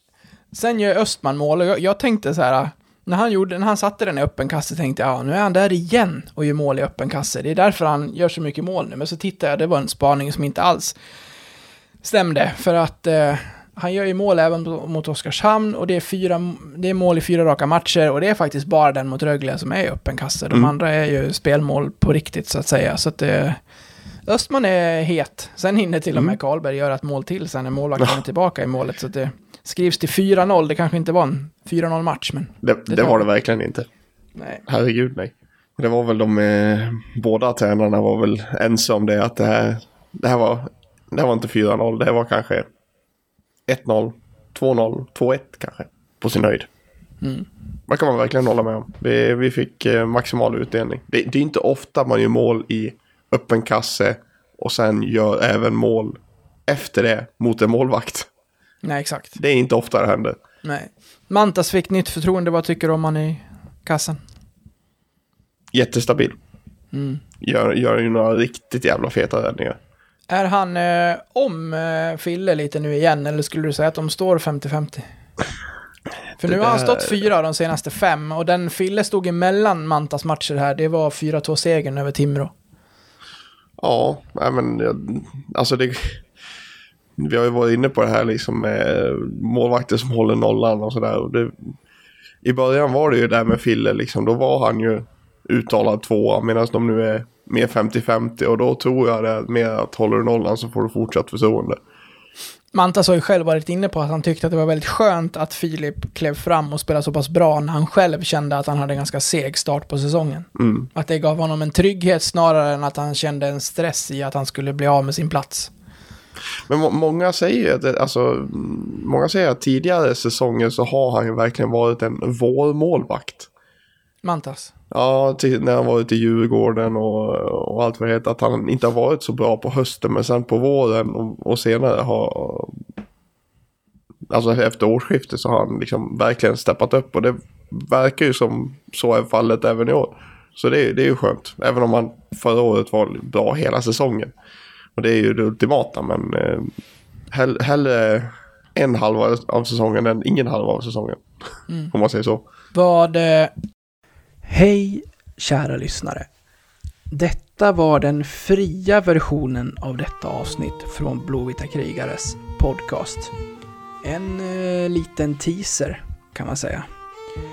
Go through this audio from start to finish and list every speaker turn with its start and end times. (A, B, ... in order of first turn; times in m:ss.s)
0:00.5-0:11.0 A
0:12.0-0:23.6 A
0:24.2-0:33.2 A
0:32.6-0:33.8 B
0:34.4-0:34.6 A
0:34.7-0:42.6 B
0:43.7-0:46.7 B
0:47.2-0:47.5 A
0:47.9-0:58.3 B
0:58.8-0:59.4 A
0:59.4-1:00.4 B
1:00.6-1:04.2 A
1:05.7-1:06.4 B
1:06.9-1:07.2 A
1:07.4-1:09.8 B
1:10.3-1:15.0 A
1:16.4-1:22.5 A
1:16.4-1:17.2 B
1:23.8-1:26.2 B
1:27.2-1:31.7 B
1:32.4-1:41.8 B
1:42.7-1:55.7 A
1:50.6-1:50.9 B
1:56.7-2:03.5 B
2:04.2-2:04.7 A
2:04.9-2:12.8 B
2:14.3-2:24.3 B
2:25.0-2:26.7 B
2:27.3-2:31.2 B
2:31.9-2:32.4 B
2:32.7-2:33.5 A
2:34.4-2:36.3 A
2:37.1-2:43.3 A
2:44.0-2:46.8 A